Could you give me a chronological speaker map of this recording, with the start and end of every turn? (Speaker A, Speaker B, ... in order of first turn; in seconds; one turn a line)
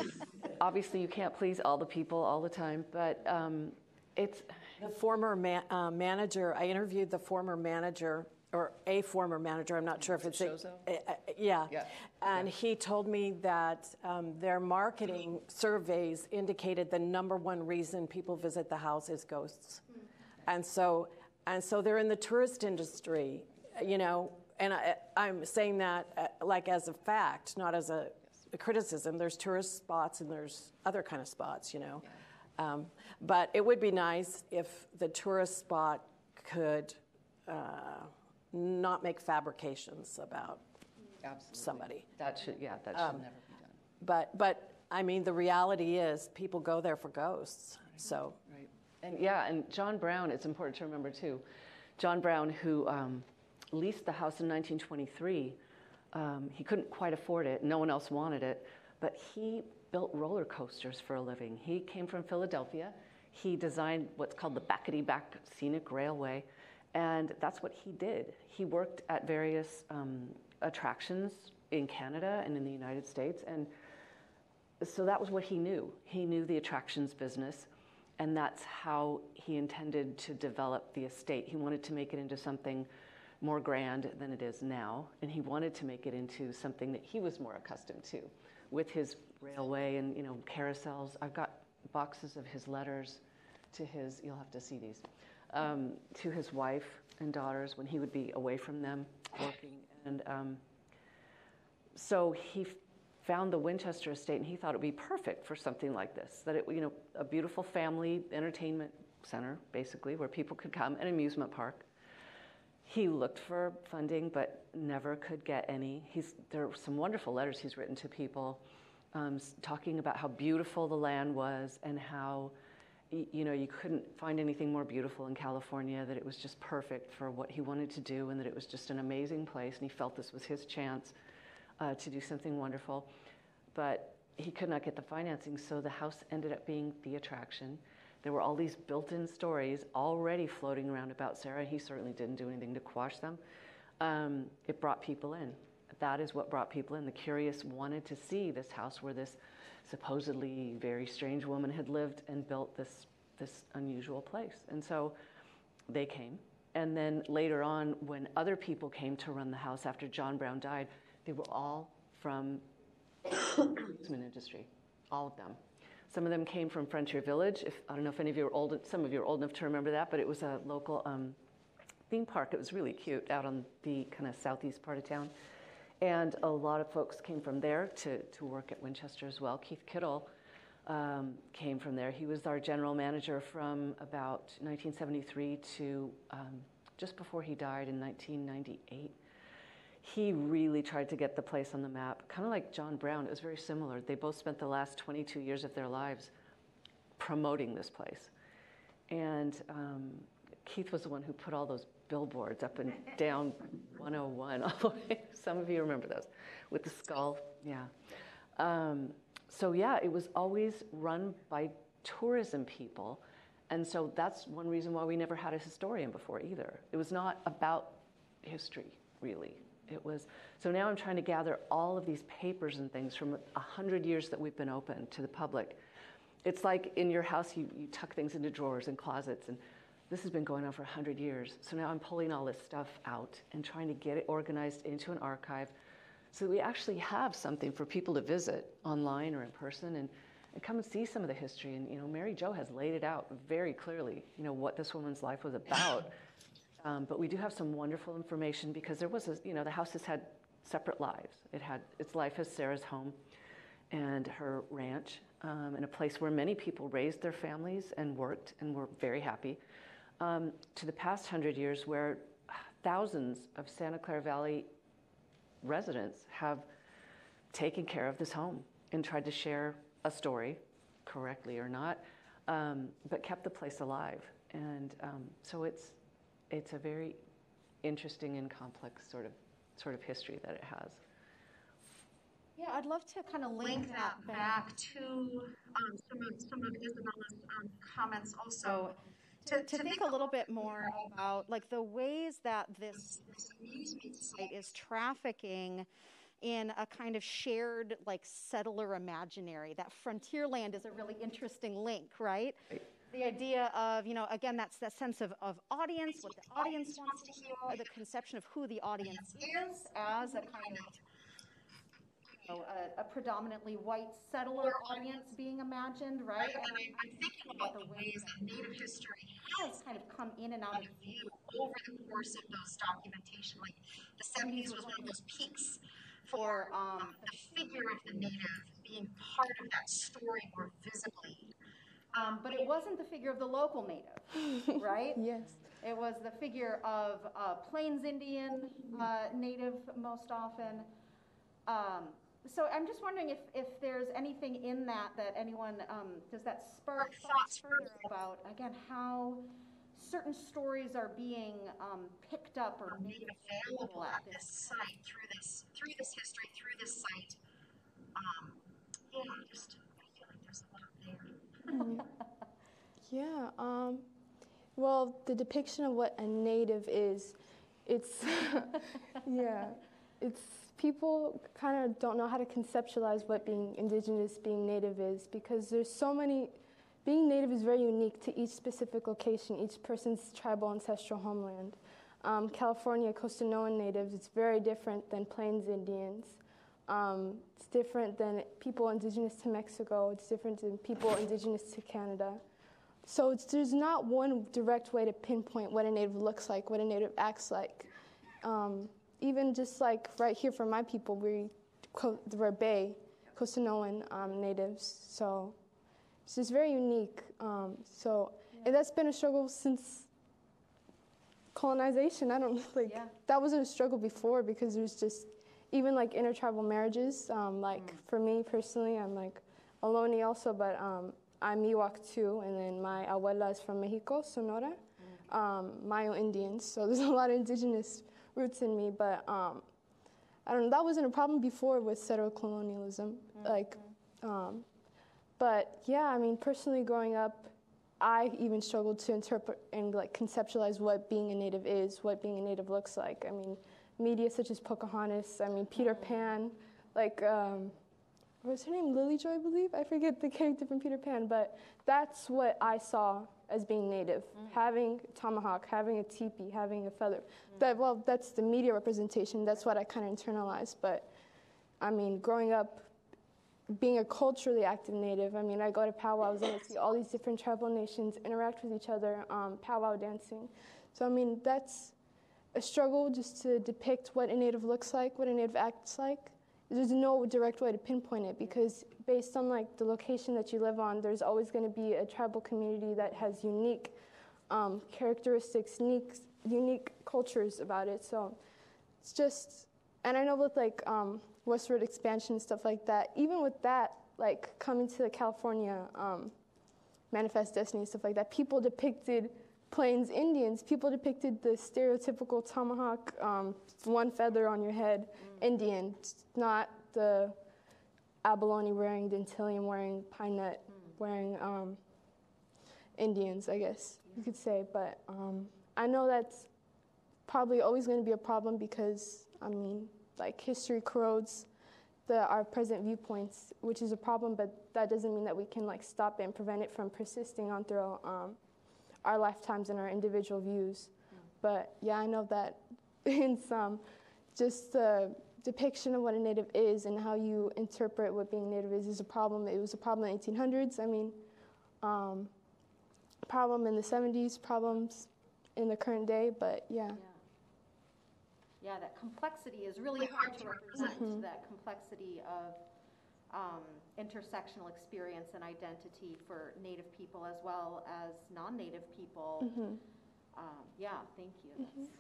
Speaker A: 0.6-4.5
Speaker B: 4.8-19.8
Speaker A: 10.0-10.9
Speaker A: 11.7-12.4
Speaker B: 20.4-32.1
Speaker B: 32.6-40.6
Speaker A: 41.2-43.8
Speaker B: 41.5-42.1
Speaker B: 42.9-43.2
Speaker B: 44.0-48.4
Speaker A: 48.5-51.4
Speaker A: 52.0-55.6
Speaker A: 56.1-73.7
Speaker A: 74.8-77.7
Speaker A: 78.2-82.9
Speaker A: 83.4-93.2
Speaker A: 93.7-100.6
Speaker A: 102.0-111.8
Speaker A: 112.8-118.6
Speaker A: 119.1-122.5
Speaker A: 123.1-131.1
Speaker A: 131.8-133.1
Speaker A: 133.7-143.4
Speaker A: 144.0-155.2
Speaker A: 155.9-162.6
Speaker A: 163.7-165.6
Speaker A: 166.1-171.4
Speaker A: 172.1-175.3
Speaker A: 176.0-180.3
Speaker A: 180.9-189.2
Speaker A: 190.0-196.3
Speaker A: 197.2-198.3
Speaker A: 199.1-207.9
Speaker A: 208.6-225.8
Speaker A: 226.4-235.7
Speaker A: 236.3-246.1
Speaker A: 246.8-253.2
Speaker A: 253.9-259.6
Speaker A: 260.2-264.7
Speaker A: 265.6-266.7
Speaker A: 267.5-276.0
Speaker A: 276.5-277.2
Speaker A: 277.8-281.0
Speaker C: 282.6-284.7
Speaker D: 283.6-291.2
Speaker C: 289.4-293.1
Speaker D: 292.9-294.8
Speaker C: 294.4-295.9
Speaker C: 296.4-310.9
Speaker D: 306.5-307.9
Speaker D: 309.0-311.0
Speaker C: 312.5-318.8
Speaker D: 314.5-315.2
Speaker D: 316.4-319.8
Speaker C: 319.5-321.0
Speaker D: 320.7-331.5
Speaker C: 324.4-325.2
Speaker C: 326.3-328.0
Speaker D: 332.2-332.6
Speaker C: 332.2-335.2
Speaker E: 335.1-335.6
Speaker C: 335.8-340.9
Speaker C: 341.7-354.7
Speaker D: 346.9-348.1
Speaker D: 352.9-357.4
Speaker D: 358.1-362.0
Speaker E: 361.7-362.1
Speaker E: 363.1-364.1
Speaker E: 364.8-392.4
Speaker E: 393.1-397.9
Speaker E: 398.4-405.6
Speaker E: 406.3-410.1
Speaker E: 411.5-429.7
Speaker C: 412.9-413.1
Speaker C: 417.7-418.0
Speaker E: 430.4-434.7
Speaker C: 433.4-433.9
Speaker E: 435.4-447.8
Speaker C: 445.8-446.2
Speaker E: 448.4-461.1
Speaker E: 461.8-462.9
Speaker E: 463.7-471.9
Speaker E: 472.5-484.0
Speaker E: 484.5-488.4
Speaker E: 489.0-496.4
Speaker E: 497.1-507.4
Speaker E: 508.2-511.8
Speaker E: 513.0-516.5
Speaker E: 517.3-521.5
Speaker E: 522.1-528.4
Speaker E: 529.0-533.8
Speaker E: 534.4-541.2
Speaker E: 541.8-542.3
Speaker E: 543.3-547.0
Speaker C: 546.9-547.2
Speaker C: 548.6-552.6
Speaker D: 550.0-551.1
Speaker E: 550.8-551.2
Speaker C: 553.3-559.6
Speaker E: 559.4-559.8
Speaker C: 560.4-561.9